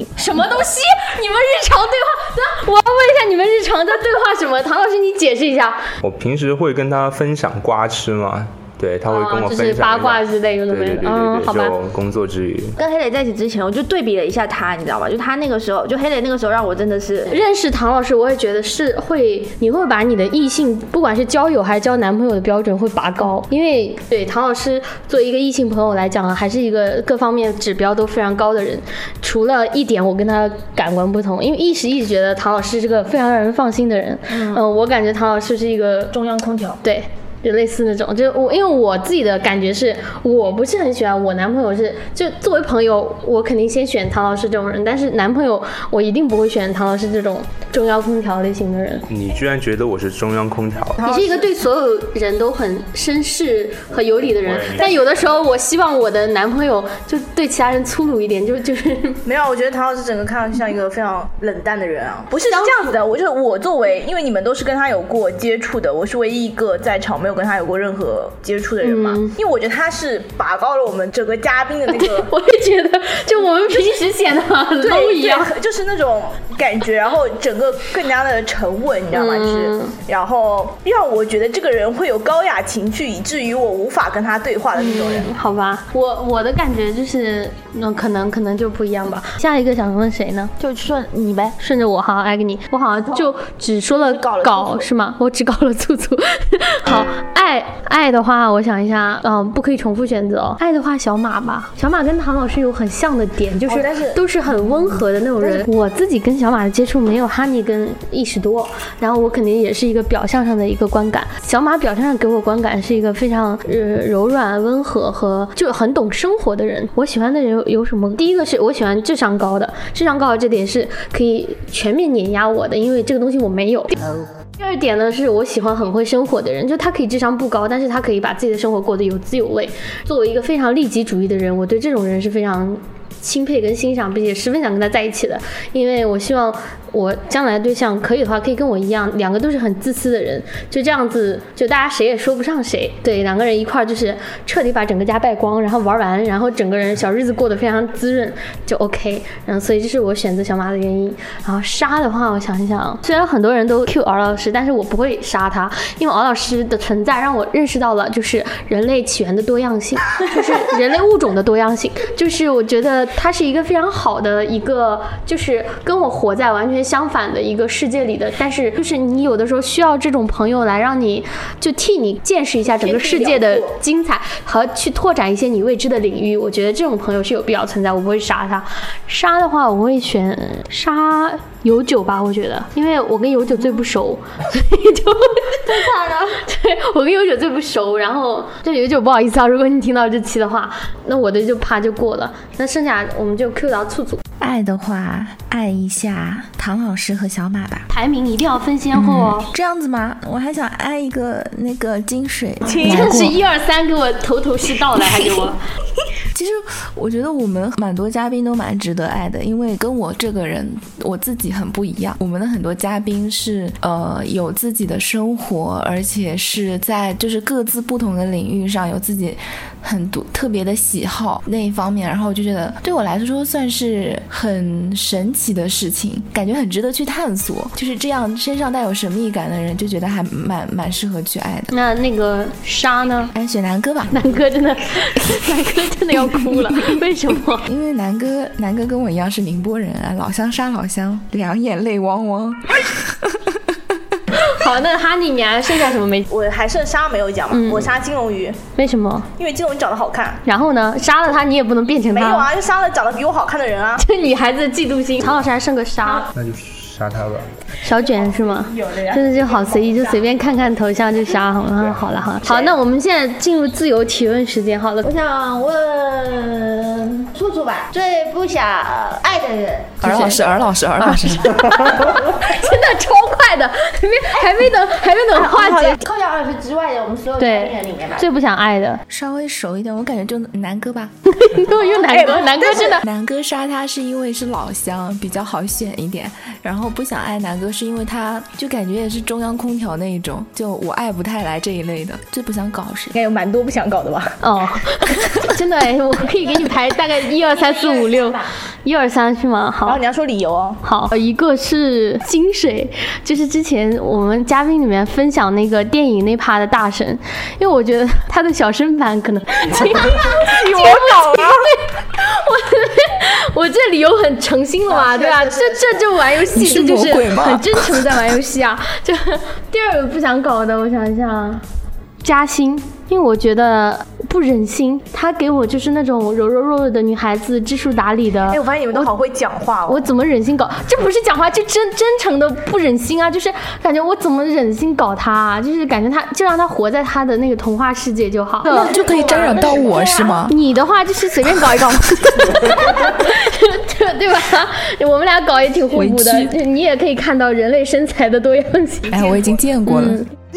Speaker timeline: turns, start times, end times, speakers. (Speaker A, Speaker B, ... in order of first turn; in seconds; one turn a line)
Speaker A: 0.1-5.8
Speaker B: 6.0-12.8
Speaker A: 9.1-11.8
Speaker C: 12.8-17.3
Speaker A: 17.3-36.1
Speaker C: 34.3-34.6
Speaker C: 36.1-36.8
Speaker A: 36.8-49.1
Speaker B: 49.1-51.0
Speaker A: 51.0-59.2
Speaker B: 54.4-54.9
Speaker D: 59.2-72.3
Speaker A: 62.4-63.0
Speaker A: 68.8-69.3
Speaker A: 71.9-75.5
Speaker D: 74.8-85.3
Speaker A: 79.1-80.0
Speaker A: 84.8-90.5
Speaker C: 90.6-91.5
Speaker A: 91.6-194.2
Speaker C: 93.9-94.9
Speaker D: 103.7-104.2
Speaker D: 105.4-105.7
Speaker D: 172.7-173.8
Speaker C: 185.7-186.4
Speaker E: 194.4-197.9
Speaker A: 197.9-199.5
Speaker E: 198.9-203.4
Speaker A: 202.7-205.6
Speaker D: 202.7-203.1
Speaker E: 206.3-231.7
Speaker A: 231.7-233.3
Speaker E: 233.3-234.2
Speaker A: 234.1-237.7
Speaker E: 237.7-243.6
Speaker A: 244.3-246.3
Speaker D: 246.3-248.6
Speaker A: 247.5-247.9
Speaker A: 248.7-249.3
Speaker D: 249.4-250.4
Speaker A: 250.4-252.5
Speaker D: 252.1-254.0
Speaker A: 254.0-256.3
Speaker B: 256.3-257.5
Speaker A: 257.8-265.1
Speaker D: 258.0-260.6
Speaker B: 261.8-262.6
Speaker D: 262.5-262.8
Speaker C: 265.0-270.1
Speaker E: 270.0-271.7
Speaker A: 270.0-270.5
Speaker A: 271.0-276.0
Speaker D: 275.3-275.9
Speaker C: 276.0-278.3
Speaker A: 277.4-279.0
Speaker E: 279.1-281.1
Speaker A: 281.3-283.0
Speaker D: 282.0-282.9
Speaker E: 282.8-293.1
Speaker D: 293.1-294.4
Speaker A: 294.4-300.0
Speaker C: 297.5-298.5
Speaker D: 299.9-300.8
Speaker A: 300.8-321.6
Speaker D: 310.4-311.6
Speaker D: 314.9-316.1
Speaker E: 316.4-318.0
Speaker A: 322.2-329.1
Speaker D: 328.5-330.1
Speaker A: 329.9-339.0
Speaker E: 338.7-340.6
Speaker D: 338.9-340.1
Speaker A: 340.5-349.3
Speaker E: 345.9-346.6
Speaker E: 349.1-350.2
Speaker A: 349.9-350.3